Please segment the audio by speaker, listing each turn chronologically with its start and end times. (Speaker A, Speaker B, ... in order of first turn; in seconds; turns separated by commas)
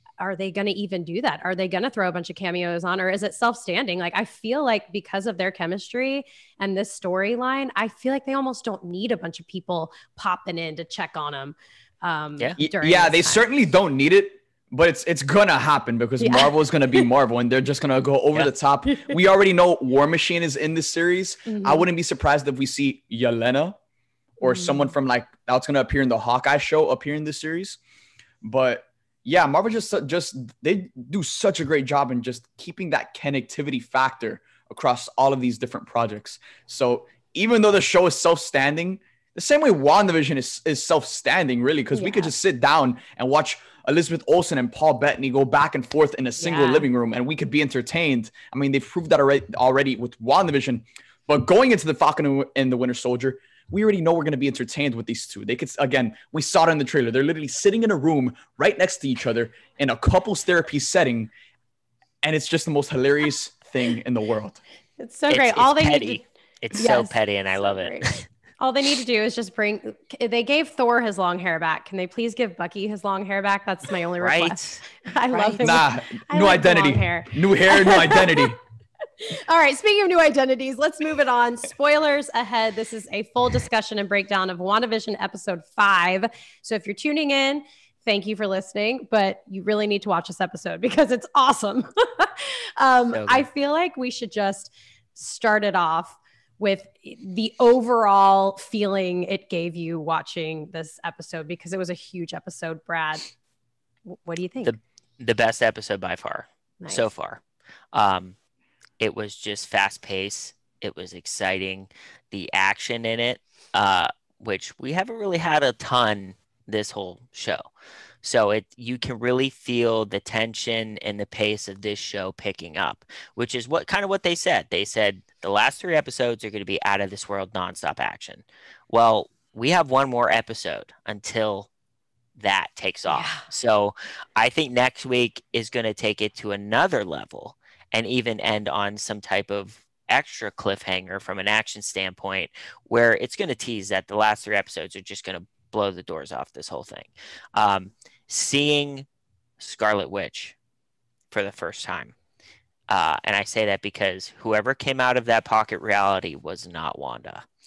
Speaker A: 0.2-13.5, Speaker B: 12.6-23.8, Speaker A: 16.2-17.0, Speaker A: 21.5-21.9, Speaker B: 24.4-27.8, Speaker A: 24.4-24.9, Speaker B: 28.4-61.3, Speaker A: 41.9-42.3, Speaker A: 46.4-46.9, Speaker B: 62.2-64.6, Speaker A: 65.0-66.2, Speaker C: 65.3-68.2, Speaker A: 66.7-78.5, Speaker C: 74.2-74.8, Speaker B: 75.6-78.6, Speaker A: 79.2-103.2, Speaker C: 93.1-93.5, Speaker A: 104.1-104.8, Speaker C: 104.6-107.4, Speaker A: 106.8-107.1, Speaker C: 107.9-108.3, Speaker C: 109.0-117.7, Speaker C: 118.2-131.7, Speaker C: 132.3-149.1, Speaker A: 133.1-133.4, Speaker C: 149.6-150.6, Speaker C: 151.3-152.1, Speaker C: 152.9-157.4